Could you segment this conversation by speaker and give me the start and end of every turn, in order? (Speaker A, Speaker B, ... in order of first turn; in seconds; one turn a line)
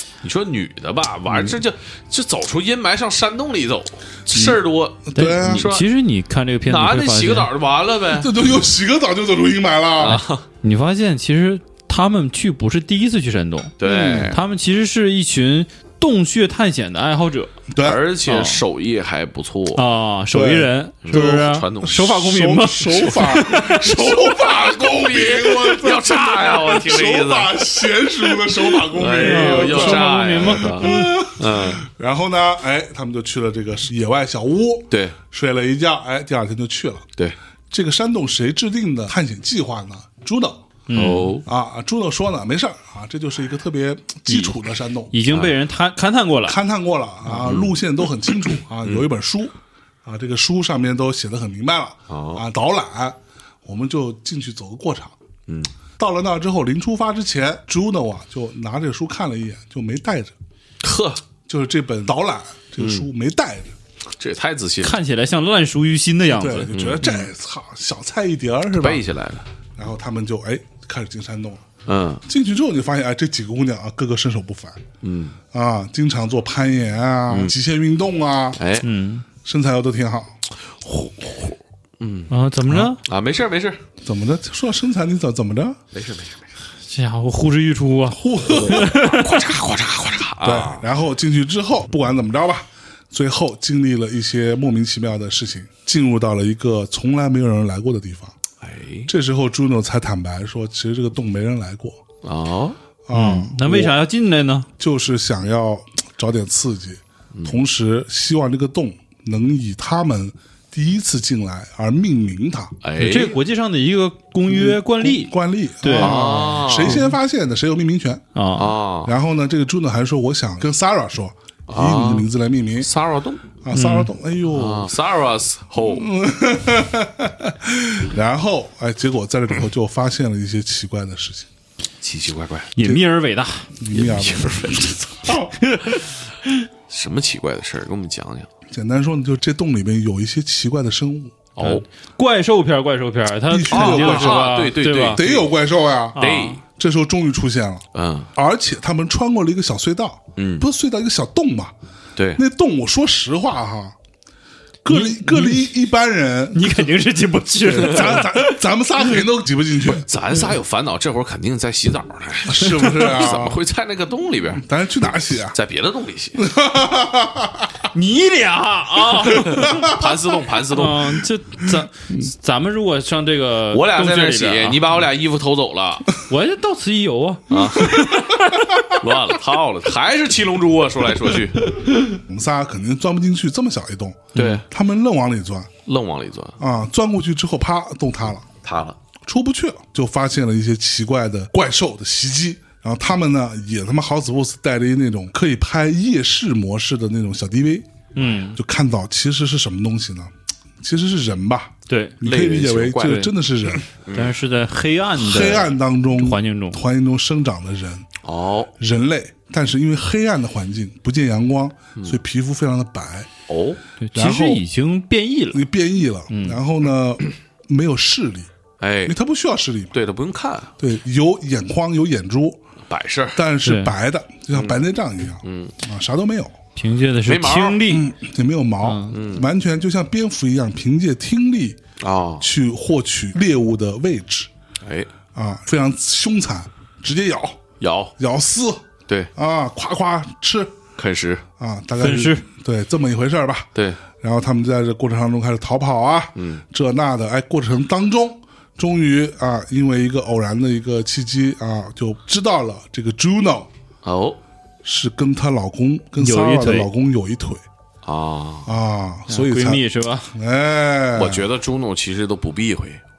Speaker A: 0.2-5.9
Speaker B: 5.1-5.7
Speaker C: 5.2-7.5
Speaker A: 6.7-8.3
Speaker B: 8.1-10.2
Speaker A: 10.0-10.4
Speaker C: 10.1-13.8
Speaker A: 13.8-14.4
Speaker B: 13.8-14.3
Speaker C: 14.3-17.5
Speaker B: 17.7-18.1
Speaker A: 17.8-19.8
Speaker C: 18.3-18.6
Speaker C: 19.8-23.6
Speaker B: 20.3-37.0
Speaker A: 21.1-22.2
Speaker A: 22.9-31.8
Speaker C: 29.1-31.1
Speaker A: 34.9-35.2
Speaker B: 37.7-40.6
Speaker C: 40.9-41.4
Speaker A: 40.9-41.5
Speaker B: 41.5-45.1
Speaker C: 45.1-46.6
Speaker A: 45.3-45.5
Speaker B: 46.5-49.5
Speaker A: 47.3-47.8
Speaker B: 50.0-55.1
Speaker A: 52.1-52.4
Speaker B: 56.0-60.4
Speaker A: 60.8-61.2
Speaker B: 61.5-63.8
Speaker A: 62.8-63.1
Speaker A: 64.2-65.0
Speaker C: 64.8-66.7
Speaker B: 66.3-69.0
Speaker A: 66.7-67.2
Speaker A: 68.8-69.5
Speaker B: 69.8-71.7
Speaker A: 71.9-72.2
Speaker B: 72.2-74.8
Speaker A: 75.0-75.4
Speaker B: 75.5-78.6
Speaker A: 77.3-77.5
Speaker A: 78.6-78.9
Speaker C: 78.8-79.2
Speaker B: 79.5-80.3
Speaker A: 80.8-82.3
Speaker C: 82.3-83.0
Speaker B: 82.7-82.9
Speaker A: 83.0-83.8
Speaker B: 84.0-85.8
Speaker A: 85.9-86.5
Speaker C: 86.9-89.4
Speaker B: 88.1-89.0
Speaker A: 88.5-90.8
Speaker B: 90.4-98.3
Speaker A: 98.6-99.1
Speaker B: 99.1-102.0
Speaker A: 102.2-102.8
Speaker B: 103.1-104.0
Speaker C: 103.1-104.7
Speaker B: 104.8-112.8
Speaker A: 107.3-107.6
Speaker A: 112.8-113.4
Speaker C: 113.0-116.2
Speaker B: 114.5-118.2
Speaker A: 116.0-117.1
Speaker C: 116.8-117.1
Speaker C: 118.3-118.7
Speaker A: 118.6-119.2
Speaker B: 119.0-122.9
Speaker A: 121.7-122.3
Speaker A: 122.8-123.4
Speaker B: 123.6-124.9
Speaker C: 123.7-124.1
Speaker A: 124.5-126.1
Speaker B: 125.8-131.5
Speaker A: 132.0-132.7
Speaker C: 132.8-133.7
Speaker B: 133.8-135.6
Speaker A: 133.9-134.9
Speaker C: 135.6-136.5
Speaker A: 136.9-138.5
Speaker B: 138.7-141.4
Speaker A: 141.6-141.8
Speaker C: 141.6-145.2
Speaker B: 143.5-147.8
Speaker A: 143.7-145.5
Speaker C: 146.2-146.6
Speaker A: 146.2-146.6
Speaker A: 147.9-148.3
Speaker B: 148.3-151.7
Speaker A: 150.4-150.7
Speaker A: 152.2-152.4
Speaker B: 152.3-154.0
Speaker B: 154.8-156.9
Speaker C: 154.9-155.7
Speaker C: 156.5-158.6
Speaker B: 157.6-160.1
Speaker A: 159.9-164.7
Speaker B: 162.5-163.6
Speaker B: 164.6-165.6
Speaker A: 165.5-166.4
Speaker B: 166.4-167.7
Speaker C: 167.9-169.9
Speaker A: 169.4-171.2
Speaker B: 169.5-170.0
Speaker C: 170.7-174.8
Speaker A: 173.7-176.1
Speaker C: 176.3-178.7
Speaker A: 177.5-178.3
Speaker A: 178.9-181.8
Speaker B: 182.1-185.7
Speaker C: 184.3-184.6
Speaker A: 184.3-184.7
Speaker A: 185.9-186.6
Speaker B: 186.6-188.4
Speaker A: 188.6-189.0
Speaker B: 189.2-197.9
Speaker C: 198.2-198.6
Speaker B: 198.6-203.8
Speaker C: 201.9-202.2
Speaker A: 202.2-203.3
Speaker C: 203.0-203.3
Speaker A: 203.9-204.4
Speaker C: 204.1-206.8
Speaker B: 205.2-208.1
Speaker A: 208.2-208.7
Speaker B: 208.8-213.3
Speaker A: 213.5-213.8
Speaker C: 214.0-215.7
Speaker B: 214.2-214.6
Speaker B: 215.5-218.5
Speaker C: 216.3-216.6
Speaker A: 218.8-219.2
Speaker B: 219.1-219.9
Speaker A: 219.9-220.7
Speaker B: 220.8-222.6
Speaker A: 222.9-223.4
Speaker B: 223.3-226.6
Speaker C: 223.6-223.9
Speaker A: 224.5-224.8
Speaker A: 225.4-225.7
Speaker C: 226.8-228.1
Speaker A: 227.2-227.8
Speaker B: 227.9-231.8
Speaker C: 228.8-229.2
Speaker A: 229.1-229.5
Speaker A: 232.0-232.5
Speaker B: 232.4-234.5
Speaker A: 234.8-235.1
Speaker B: 235.3-237.6
Speaker A: 237.8-238.1
Speaker B: 238.2-238.8
Speaker B: 239.4-240.8
Speaker A: 241.0-241.4
Speaker B: 241.6-253.7
Speaker C: 242.0-242.4
Speaker A: 243.8-244.0
Speaker A: 246.4-246.6
Speaker A: 254.0-254.4
Speaker B: 254.8-257.6
Speaker C: 256.2-256.9
Speaker A: 258.1-258.7
Speaker B: 258.7-259.8
Speaker C: 259.3-260.3
Speaker B: 260.3-261.5
Speaker A: 261.1-263.0